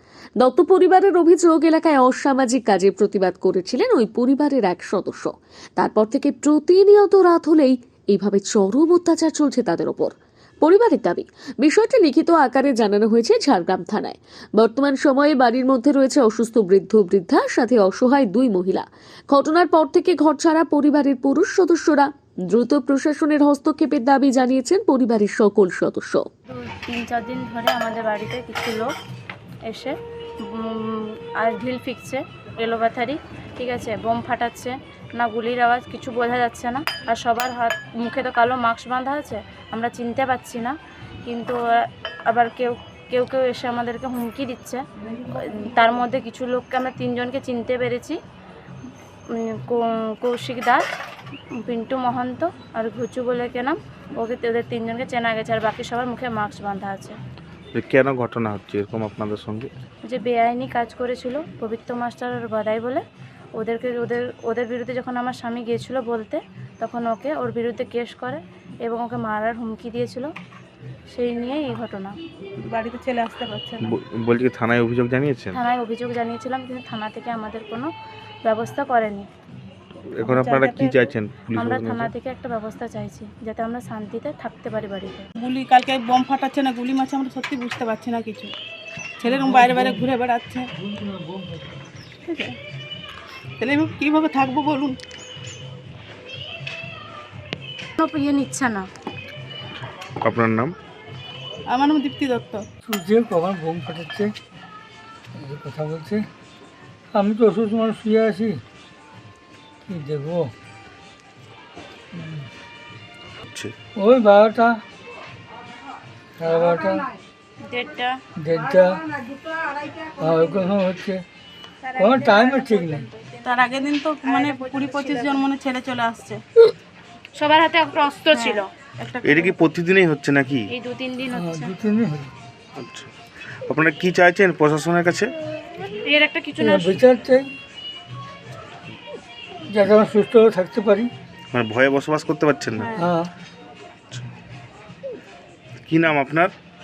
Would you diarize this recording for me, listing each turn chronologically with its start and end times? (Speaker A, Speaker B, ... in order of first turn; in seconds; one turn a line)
Speaker A: 0.4-26.3
Speaker B: 26.5-28.9
Speaker B: 29.7-29.9
Speaker B: 30.5-41.6
Speaker B: 42.3-48.2
Speaker B: 49.3-50.8
Speaker B: 51.6-57.2
Speaker C: 57.7-59.7
Speaker B: 60.1-63.0
Speaker B: 63.6-70.3
Speaker B: 71.1-72.1
Speaker D: 72.6-73.9
Speaker C: 73.8-75.6
Speaker B: 75.5-77.9
Speaker B: 78.4-79.3
Speaker C: 80.2-82.1
Speaker D: 80.2-80.9
Speaker B: 81.5-85.3
Speaker D: 85.4-88.5
Speaker D: 89.2-90.7
Speaker E: 90.8-91.6
Speaker D: 92.2-92.6
Speaker D: 93.6-95.0
Speaker B: 98.0-98.9
Speaker C: 100.2-100.7
Speaker D: 101.7-102.7
Speaker E: 102.8-104.3
Speaker E: 105.3-106.2
Speaker E: 107.1-108.6
Speaker E: 109.8-110.5
Speaker E: 112.1-112.5
Speaker C: 113.5-113.7
Speaker E: 114.0-114.8
Speaker E: 116.4-117.1
Speaker B: 117.6-118.2
Speaker E: 118.4-119.0
Speaker E: 120.2-121.2
Speaker D: 121.8-126.4
Speaker E: 122.0-123.1
Speaker B: 124.2-125.5
Speaker B: 127.4-128.7
Speaker D: 128.3-129.6
Speaker C: 129.2-130.7
Speaker B: 130.7-131.7
Speaker E: 131.3-132.3
Speaker C: 132.8-133.1
Speaker C: 133.7-135.3
Speaker B: 136.0-137.0
Speaker E: 136.6-137.5
Speaker E: 139.7-141.1
Speaker C: 141.5-143.0
Speaker E: 142.9-143.3
Speaker C: 145.8-146.5